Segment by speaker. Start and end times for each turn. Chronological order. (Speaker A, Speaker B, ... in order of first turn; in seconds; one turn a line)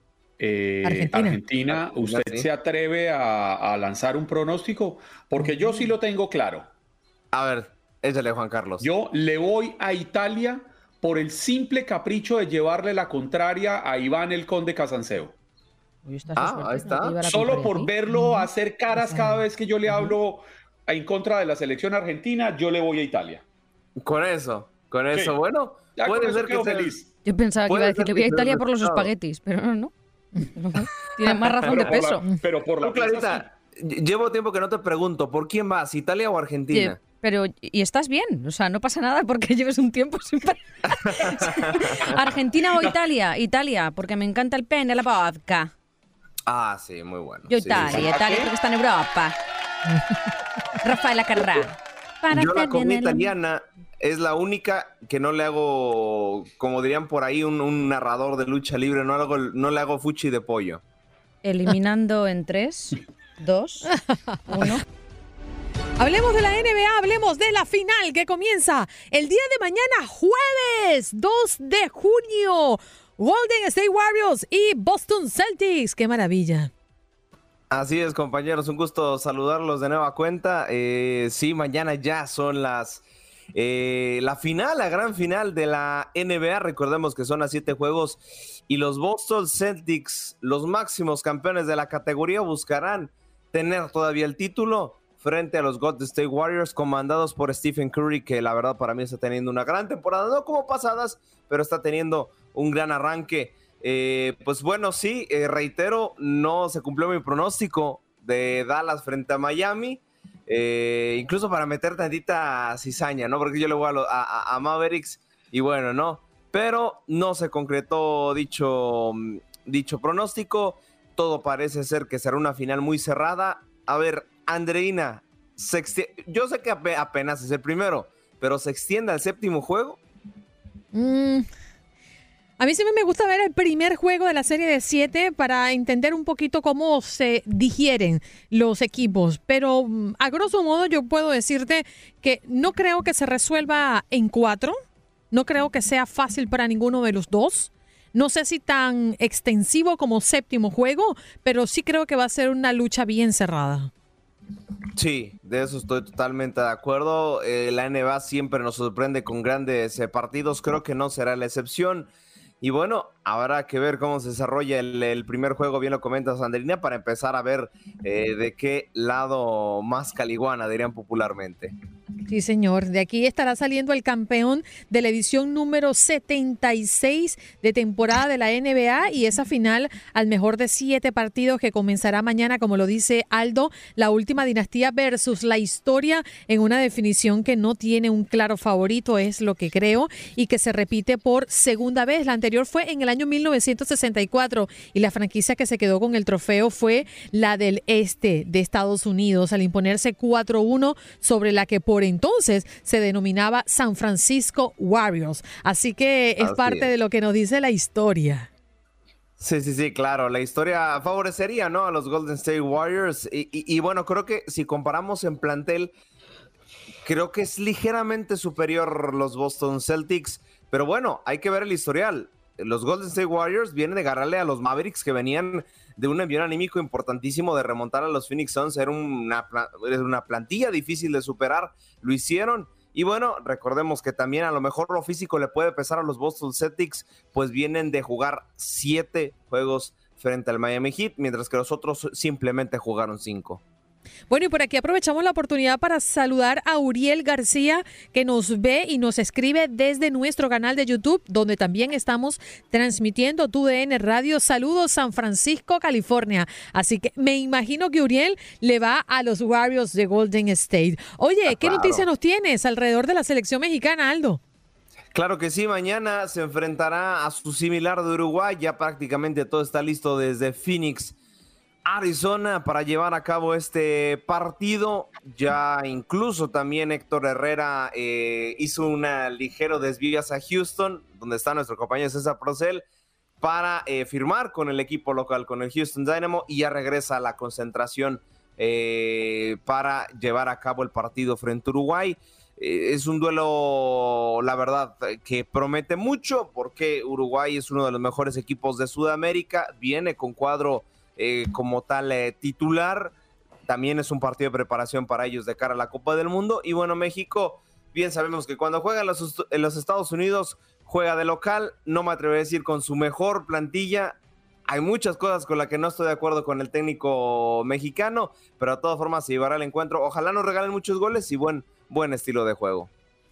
Speaker A: 0.4-6.7
Speaker B: 0.8-1.4
Speaker C: 1.7-2.5
Speaker C: 7.3-8.9
Speaker A: 8.8-15.3
Speaker D: 16.1-20.2
Speaker C: 16.4-17.2
Speaker A: 17.2-23.4
Speaker C: 24.0-27.0
Speaker A: 25.1-25.4
Speaker A: 25.9-27.1
Speaker D: 27.2-29.9
Speaker C: 27.7-29.1
Speaker D: 30.4-32.3
Speaker A: 31.6-33.5
Speaker C: 31.7-32.0
Speaker C: 32.8-37.0
Speaker D: 36.7-45.7
Speaker C: 41.3-41.7
Speaker C: 46.5-48.5
Speaker D: 47.5-49.4
Speaker D: 50.8-53.3
Speaker C: 52.3-60.8
Speaker D: 61.4-63.9
Speaker D: 64.5-64.8
Speaker B: 66.0-76.7
Speaker C: 77.7-83.0
Speaker C: 83.5-130.0
Speaker B: 130.9-131.5
Speaker B: 132.6-144.8
Speaker B: 145.3-153.9
Speaker C: 154.9-162.1
Speaker C: 162.6-171.7
Speaker B: 172.3-208.5
Speaker C: 206.4-206.9
Speaker C: 209.4-215.9
Speaker C: 217.1-243.6
Speaker B: 244.3-264.4
Speaker C: 261.5-262.1
Speaker C: 265.1-271.2
Speaker C: 271.9-282.8
Speaker C: 283.4-303.1
Speaker C: 303.7-322.9